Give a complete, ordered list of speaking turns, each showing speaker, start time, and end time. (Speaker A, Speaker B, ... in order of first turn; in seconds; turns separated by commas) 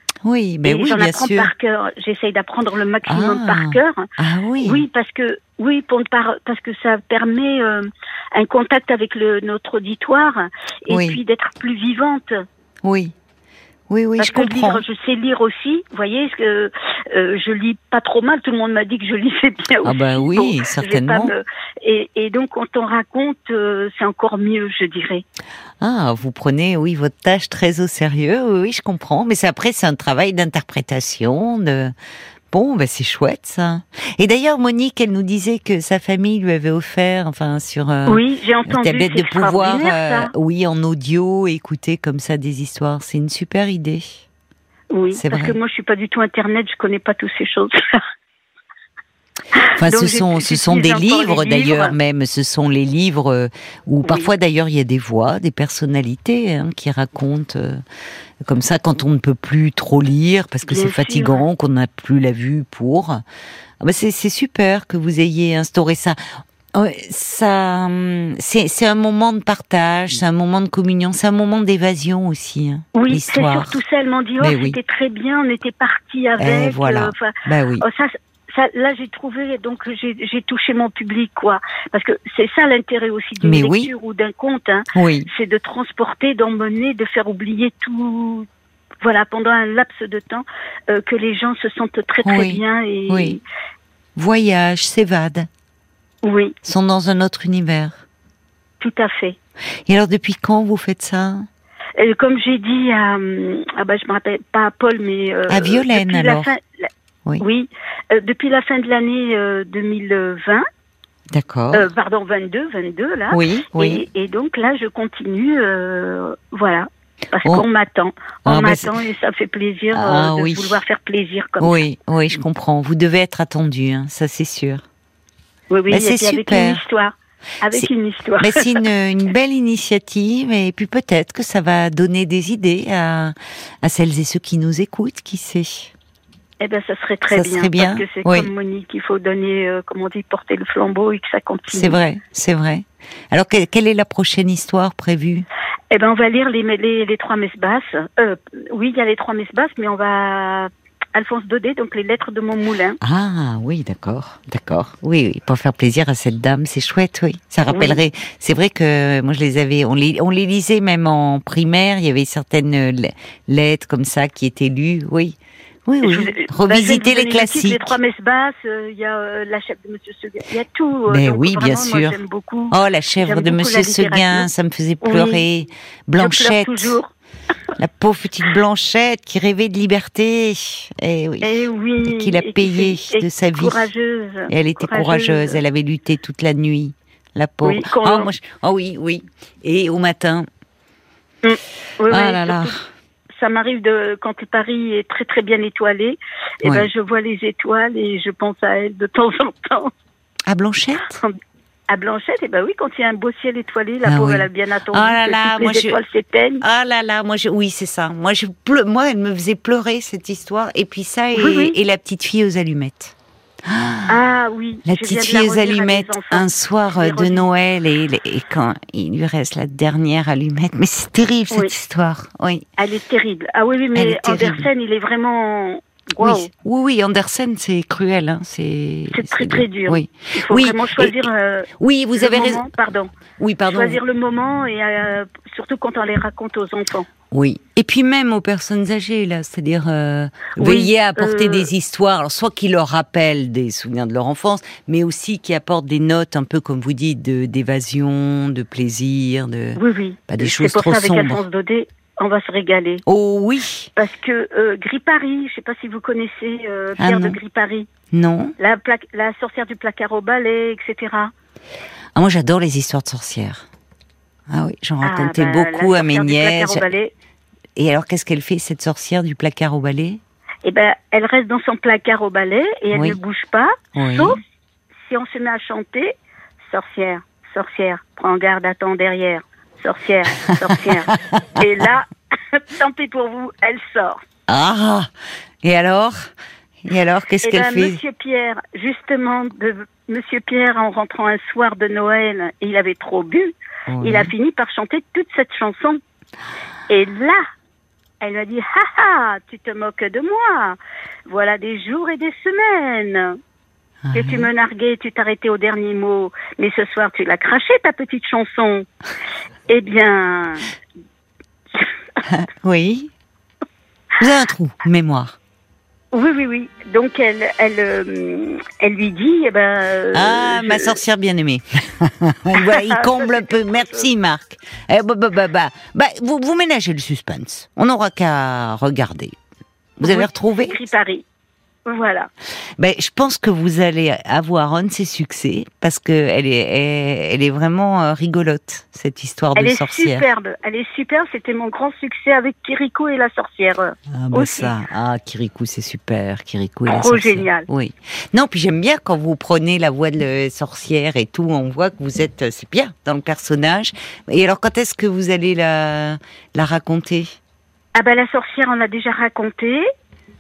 Speaker A: 0.2-1.5, Speaker B: 0.6-4.0, Speaker A: 3.1-4.8, Speaker B: 4.6-12.4, Speaker A: 10.9-11.2, Speaker A: 12.8-13.2, Speaker A: 13.9-14.8, Speaker B: 14.2-25.2, Speaker A: 19.8-21.4, Speaker A: 25.8-31.9, Speaker A: 32.5-44.2, Speaker B: 38.1-40.3, Speaker B: 44.9-47.8, Speaker A: 45.1-45.6, Speaker B: 49.6-51.9, Speaker A: 49.8-57.8, Speaker A: 58.5-63.2, Speaker B: 60.7-61.4, Speaker A: 63.8-66.2, Speaker A: 66.7-73.8, Speaker B: 73.0-88.5, Speaker A: 74.4-74.8, Speaker A: 76.4-77.8, Speaker A: 83.4-83.9, Speaker A: 85.0-85.3, Speaker B: 89.0-93.4, Speaker A: 92.2-93.4, Speaker A: 94.2-95.5, Speaker B: 96.2-96.5, Speaker A: 96.7-98.0, Speaker B: 98.8-99.4, Speaker A: 99.9-101.5, Speaker B: 102.0-110.7, Speaker A: 105.5-106.5, Speaker A: 111.3-111.9, Speaker B: 111.7-121.8, Speaker A: 113.3-114.0, Speaker A: 118.5-118.9, Speaker A: 119.9-120.8, Speaker A: 121.6-124.8, Speaker B: 125.7-128.6, Speaker A: 125.9-126.8, Speaker A: 128.4-135.9, Speaker B: 136.6-142.0, Speaker A: 137.3-138.5, Speaker A: 141.7-145.5, Speaker B: 145.9-153.0, Speaker A: 153.0-168.0, Speaker B: 157.7-158.0, Speaker B: 166.0-174.5, Speaker A: 171.1-172.2, Speaker A: 172.7-177.0, Speaker B: 175.0-175.4, Speaker B: 176.2-177.1, Speaker A: 177.8-181.5, Speaker B: 181.4-185.6, Speaker A: 182.0-183.9, Speaker A: 184.5-190.5, Speaker B: 187.6-188.3, Speaker B: 191.4-192.8, Speaker A: 192.1-192.9, Speaker B: 193.3-199.9, Speaker A: 196.6-196.9, Speaker A: 200.5-201.2, Speaker B: 201.9-206.6, Speaker A: 204.1-206.0, Speaker A: 206.6-213.2, Speaker B: 211.3-211.8, Speaker A: 213.7-214.1, Speaker B: 214.1-217.5, Speaker A: 214.9-222.6, Speaker B: 222.8-226.5, Speaker A: 223.9-224.7, Speaker A: 226.2-231.3, Speaker B: 229.1-233.1, Speaker A: 231.8-232.6, Speaker A: 233.4-234.0, Speaker B: 233.7-237.1, Speaker A: 237.3-251.4, Speaker B: 240.6-241.7, Speaker B: 249.8-253.0, Speaker A: 253.1-253.9, Speaker B: 254.0-257.9, Speaker A: 257.0-257.4, Speaker A: 258.1-258.5, Speaker B: 258.6-261.3, Speaker A: 262.1-263.7, Speaker A: 264.5-266.9, Speaker B: 265.0-267.1, Speaker A: 267.8-270.2, Speaker B: 270.6-274.4, Speaker A: 273.9-274.4, Speaker B: 275.0-284.2, Speaker A: 284.5-285.1, Speaker A: 285.6-286.3, Speaker A: 286.9-288.0, Speaker B: 287.4-296.0, Speaker A: 293.9-294.3, Speaker B: 296.9-297.4, Speaker B: 298.2-303.4, Speaker A: 304.1-304.5, Speaker B: 304.1-308.9, Speaker B: 309.7-310.7, Speaker A: 312.3-313.1, Speaker A: 314.2-315.4, Speaker B: 316.1-321.0, Speaker A: 320.1-329.4, Speaker B: 322.5-324.1, Speaker A: 330.0-330.9, Speaker B: 330.0-331.2, Speaker B: 331.9-332.3, Speaker A: 332.8-340.3, Speaker B: 339.6-344.7, Speaker A: 344.1-357.4, Speaker B: 346.9-347.7, Speaker B: 357.9-359.8